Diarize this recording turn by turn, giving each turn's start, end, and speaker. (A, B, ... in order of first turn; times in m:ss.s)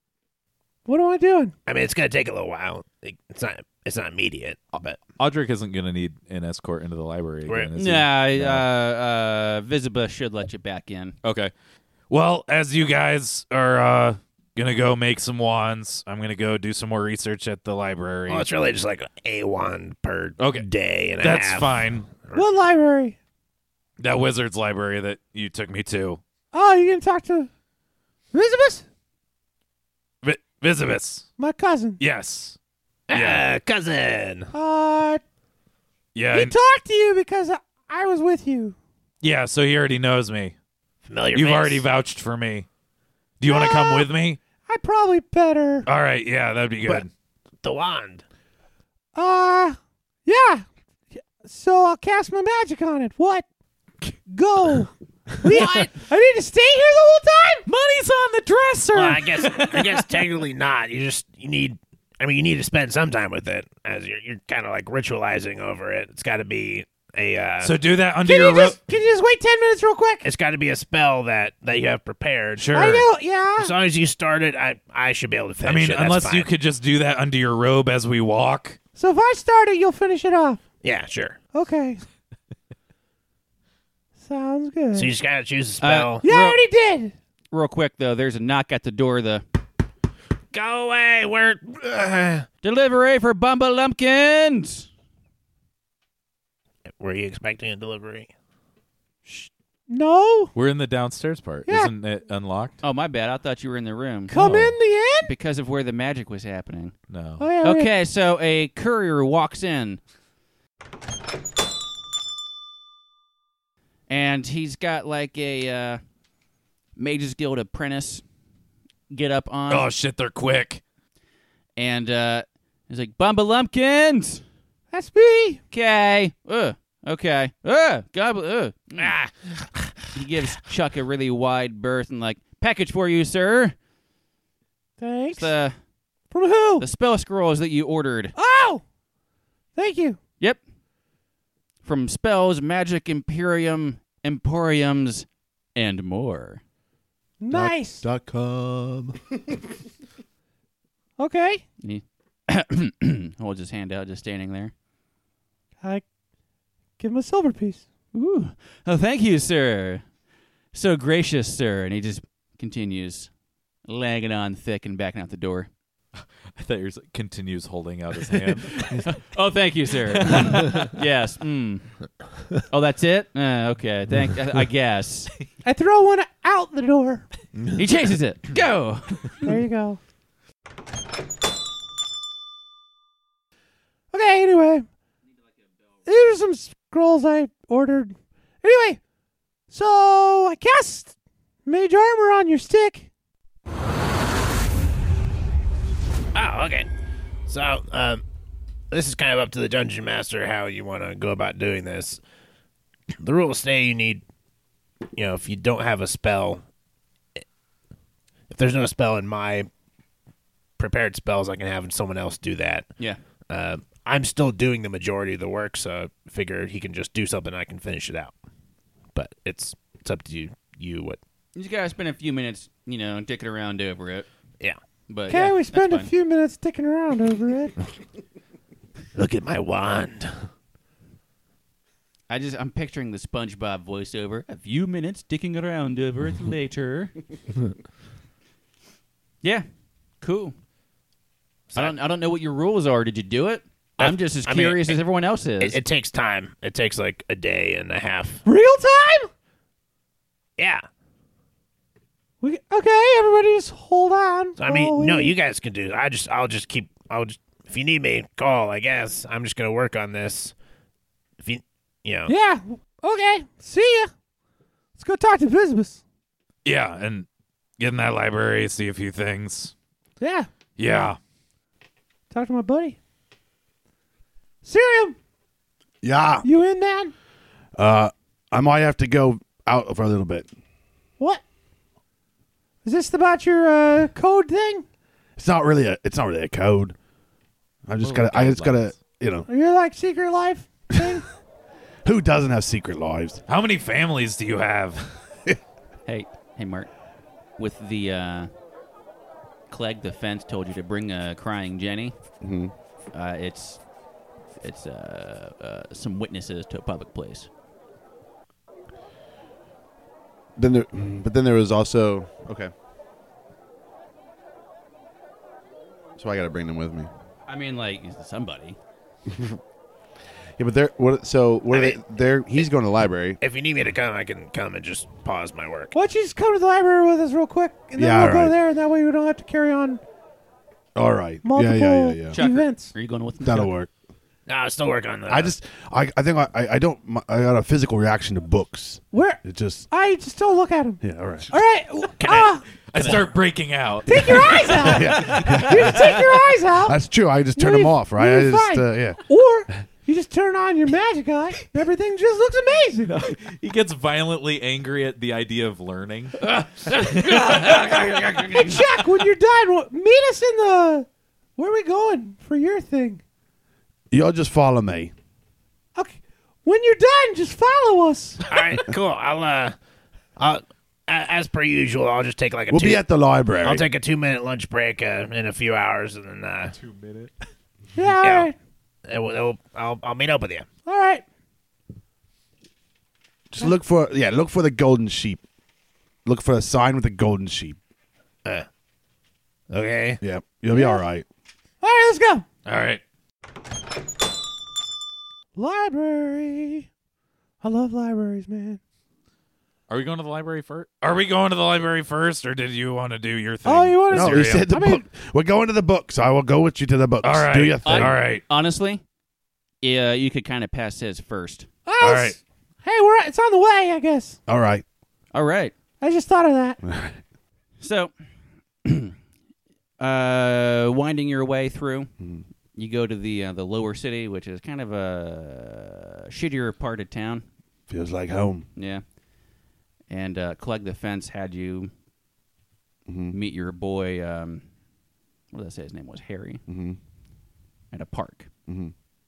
0:00.9-0:01.5 A
0:01.7-0:05.0 B
0:05.2-0:08.7 C
0:07.8-0:11.2 D
0:11.2-0:11.5 C
0:12.1-0:18.5 C
0:18.3-0:22.4 B
0:20.4-0:20.7 C
0:21.2-0:22.1 C
0:22.3-0:23.2 A
0:24.0-0:26.2 C
0:26.5-0:27.5 A
0:28.3-0:28.8 A
0:30.2-0:31.3 C
0:31.4-0:32.0 A
0:32.0-0:32.6 C
0:33.1-0:34.5 B
0:33.1-0:33.5 C
0:34.5-0:35.2 A
0:36.2-0:36.6 C
0:36.3-0:38.8 A
0:39.2-0:40.6 C
0:41.0-0:41.8 B
0:41.3-0:42.7 C
0:43.4-0:44.4 C
0:43.4-0:44.1 A
0:44.6-0:45.9 A
0:45.9-0:47.1 C
0:47.6-0:48.2 B
0:49.2-0:50.6 A
0:51.2-0:53.4 A
0:54.3-0:57.7 A
0:55.5-0:55.9 B
0:57.7-0:58.9 C
0:58.9-0:59.2 A
0:58.9-1:07.7 B
1:07.6-1:08.8 C
1:08.2-1:10.3 A
1:10.2-1:13.0 B
1:12.6-1:13.0 C
1:12.7-1:13.7 A
1:13.6-1:16.5 B
1:15.6-1:18.8 C
1:19.0-1:20.6 A
1:20.8-1:21.4 B
1:21.5-1:22.0 A
1:24.2-1:25.1 A
1:25.0-1:26.2 B
1:25.8-1:26.6 D
1:26.2-1:27.1 A
1:27.5-1:29.4 D
1:30.5-1:32.5 B
1:32.6-1:34.9 D
1:37.0-1:38.3 B
1:39.3-1:40.5 A
1:40.5-1:42.8 C
1:41.7-1:41.9 A
1:42.8-1:44.5 D
1:44.3-1:45.3 A
1:44.3-1:44.8 C
1:45.2-1:47.0 D
1:47.1-1:47.5 C
1:47.4-1:47.9 A
1:47.6-1:50.0 D
1:54.1-1:56.0 D
1:57.0-1:58.2 D
1:59.1-1:59.9 D
1:59.7-2:00.8 C
2:01.8-2:04.4 D
2:04.9-2:05.6 A
2:05.7-2:09.1 D
2:09.0-2:10.0 B
2:10.1-2:13.8 D
2:15.0-2:15.6 A
2:15.4-2:15.8 D
2:16.3-2:16.8 A
2:16.8-2:18.3 D
2:18.4-2:18.8 A
2:19.8-2:20.2 A
2:21.8-2:26.6 D
2:27.4-2:28.0 A
2:27.5-2:29.2 E
2:31.2-2:31.6 A
2:31.8-2:34.7 D
2:37.0-2:37.8 A
2:38.1-2:40.0 D
2:40.7-2:43.3 D
2:43.9-2:45.7 D
2:46.5-2:49.1 C
2:48.5-2:55.3 D
2:50.2-2:50.9 C
2:55.6-2:57.3 A
2:57.7-2:59.6 D
2:59.4-3:00.0 A
3:04.1-3:04.9 A
3:06.1-3:09.0 A
3:09.7-3:11.1 A
3:11.7-3:13.1 A
3:16.4-3:16.9 B
3:17.5-3:18.2 B
3:18.9-3:22.2 B
3:23.2-3:24.2 B
3:25.2-3:26.6 B
3:28.5-3:29.7 B
3:30.8-3:32.9 B
3:33.5-3:38.4 B
3:39.1-3:41.2 B
3:41.6-3:44.3 D
3:45.1-3:46.1 D
3:45.3-3:47.8 A
3:49.2-3:50.4 B
3:52.3-3:57.2 D
4:00.2-4:00.5 D
4:01.8-4:05.8 D
4:04.0-4:05.0 B
4:05.6-4:08.4 B
4:08.5-4:09.3 A
4:10.6-4:10.8 B
4:12.4-4:15.3 A
4:14.6-4:20.6 B
4:21.4-4:22.3 B
4:22.3-4:24.1 A
4:25.0-4:26.0 A
4:26.6-4:27.3 C
4:27.8-4:29.7 C
4:30.2-4:30.5 A
4:30.8-4:31.2 C
4:32.3-4:33.0 A
4:34.6-4:35.2 A
4:36.0-4:36.5 E
4:36.4-4:37.1 A
4:37.8-4:40.5 E
4:42.8-4:44.8 A
4:45.4-4:47.0 E
4:47.9-4:49.5 E
4:48.0-4:49.0 C
4:49.5-4:51.3 A
4:52.0-4:53.4 E
4:53.5-4:55.2 C
4:56.1-4:56.9 D
4:57.6-4:58.5 D
4:59.7-5:02.1 D
5:02.4-5:02.7 E
5:03.1-5:03.8 D
5:04.6-5:07.5 D
5:10.6-5:12.7 E
5:16.2-5:17.1 E
5:17.5-5:18.8 D
5:19.3-5:19.6 E
5:20.6-5:23.4 E
5:21.7-5:22.0 B
5:23.4-5:25.9 B
5:25.9-5:30.0 A
5:28.0-5:28.6 E
5:31.0-5:32.4 E
5:31.4-5:32.9 A
5:32.3-5:33.7 D
5:33.4-5:33.9 E
5:34.5-5:35.5 B
5:35.3-5:39.9 E
5:39.1-5:42.6 A
5:41.0-5:41.5 E
5:42.2-5:43.3 B
5:42.9-5:44.9 C
5:44.1-5:47.0 A
5:44.8-5:46.2 E
5:45.0-5:45.6 D
5:46.8-5:49.2 E
5:47.6-5:53.2 A
5:53.1-5:58.6 C
5:56.6-5:58.8 D
5:58.5-6:03.2 A
6:04.1-6:05.1 E
6:06.0-6:08.5 A
6:08.5-6:09.8 B
6:10.4-6:13.0 B
6:12.7-6:13.9 E
6:13.6-6:16.8 B
6:16.7-6:17.3 C
6:18.0-6:18.6 A
6:18.2-6:18.5 B
6:19.1-6:20.7 B
6:20.9-6:21.2 A
6:23.5-6:25.4 E
6:26.2-6:27.8 E
6:29.7-6:30.2 B
6:30.2-6:31.3 E
6:30.7-6:31.0 A
6:31.8-6:32.5 A
6:32.6-6:33.0 C
6:35.6-6:36.9 A
6:37.6-6:38.8 A
6:39.9-6:44.7 C
6:43.6-6:45.0 A
6:44.1-6:48.2 E
6:47.2-6:48.4 C
6:47.8-6:49.0 D
6:49.8-6:51.7 D
6:51.9-6:54.4 A
6:52.0-6:52.4 C
6:54.5-6:54.8 E
6:55.3-6:55.7 D
6:56.0-6:56.8 A
6:56.8-6:57.2 E
6:57.8-6:58.1 D
6:58.8-6:59.1 D
7:00.0-7:02.1 D
7:02.2-7:02.4 E
7:02.8-7:07.4 D
7:07.9-7:08.7 E
7:08.8-7:09.0 D
7:10.1-7:11.9 D
7:13.1-7:13.4 E
7:13.3-7:14.6 D
7:15.5-7:16.6 D
7:16.7-7:17.0 E
7:17.9-7:18.5 D
7:18.7-7:18.9 E